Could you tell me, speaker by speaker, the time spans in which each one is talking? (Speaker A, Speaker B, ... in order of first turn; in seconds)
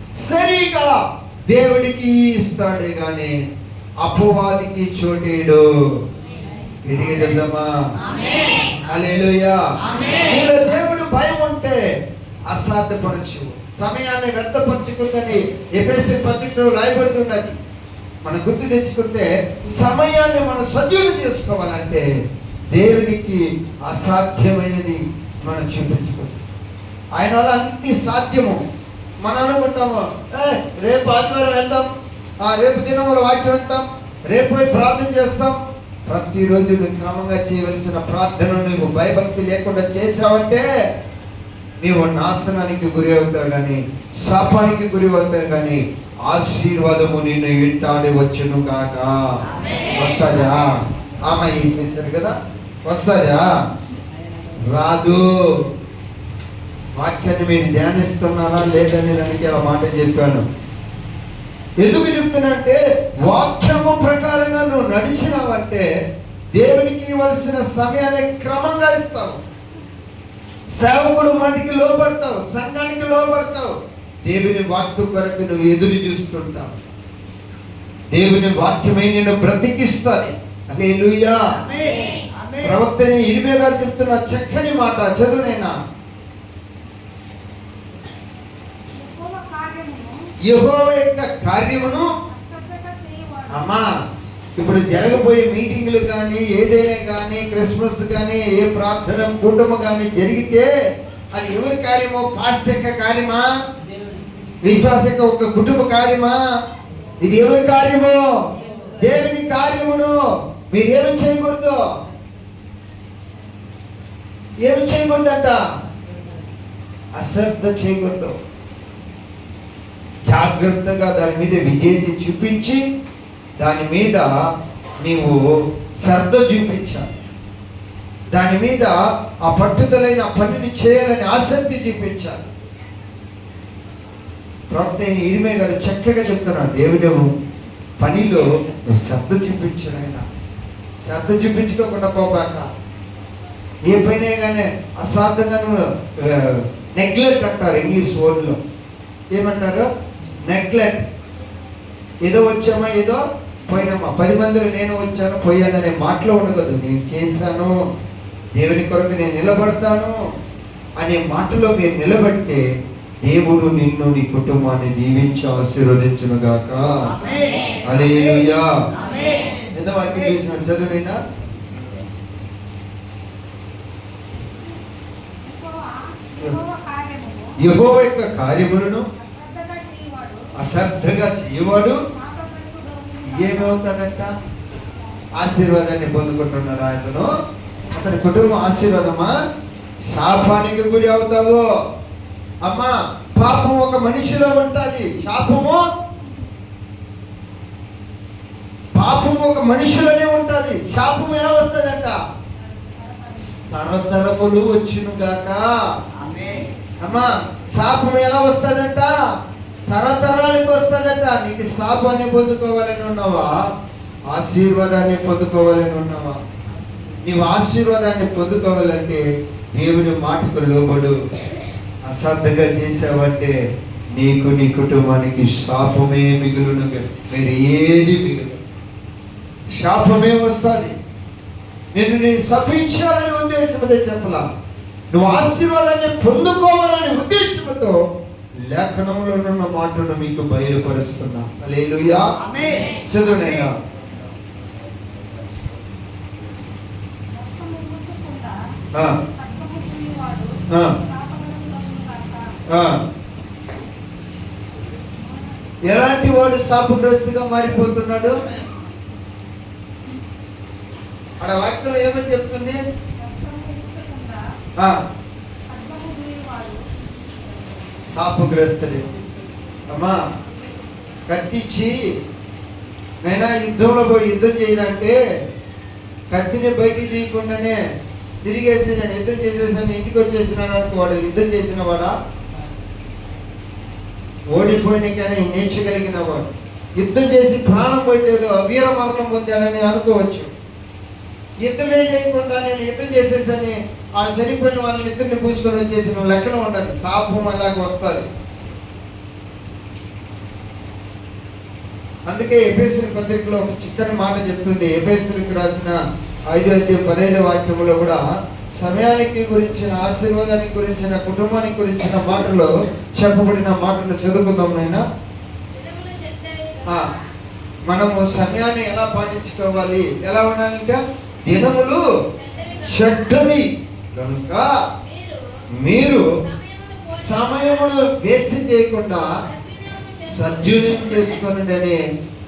Speaker A: 0.2-3.4, 4.0-5.6, 6.9-7.7, 8.9-9.6, 10.2-11.8, 12.5-17.6, 18.2-22.1, 22.7-26.4, 27.2-28.6, 29.2-31.9, 32.4-40.6, 41.8-53.5, 54.7-55.3, 57.0-60.5, 61.8-65.9, 66.5-69.4, 70.7-73.7, 74.2-76.8, 78.1-81.4, 82.6-85.8, 90.5-92.1, 93.5-93.9, 94.6-100.7, 101.3-103.5, 104.6-106.4, 107.2-108.2, 109.0-110.2, 110.7-111.8, 114.6-115.6, 117.1-118.4, 120.3-122.8, 123.6-124.3, 125.0-125.4, 126.0-127.1, 128.3-132.4, 134.7-137.3, 138.0-140.2, 141.0-142.7, 143.9-148.6, 149.3-149.9, 150.5-151.1, 152.2-157.8, 158.6-160.2, 161.0-162.6, 163.2-167.1, 167.8-168.7, 169.8-171.2, 177.6-179.1, 180.6-182.0, 183.3-184.3, 185.4-187.3, 187.9-189.3, 190.1-191.7, 192.6-195.8, 198.9-202.2, 203.5-205.7, 207.0-209.1, 209.9-213.5, 214.3-216.4, 217.2-219.2, 219.8-221.2, 222.1-223.6, 224.1-228.6, 229.7-230.9, 231.9-234.4, 235.1-238.0, 238.7-243.8, 250.7-250.9, 252.7-253.0, 255.8-258.4, 261.4-262.8, 268.1-269.0, 269.9-270.2, 271.3-272.0, 273.2-275.2, 276.3-277.8, 278.4-282.1, 284.5-290.5, 291.6-298.3, 302.3-306.0, 306.5-308.2, 308.8-315.0, 316.8-317.1, 317.9-322.0, 322.8-323.6, 324.1-324.7, 325.8-326.2, 327.0-329.3, 330.2-332.0
Speaker B: 89.0-90.2, 92.3-93.8, 175.4-177.6, 179.2-180.6, 182.1-183.9, 202.6-203.8, 206.3-206.7, 247.3-248.6, 249.2-252.6, 255.0-255.8, 263.2-264.4, 265.7-267.9, 315.8-316.9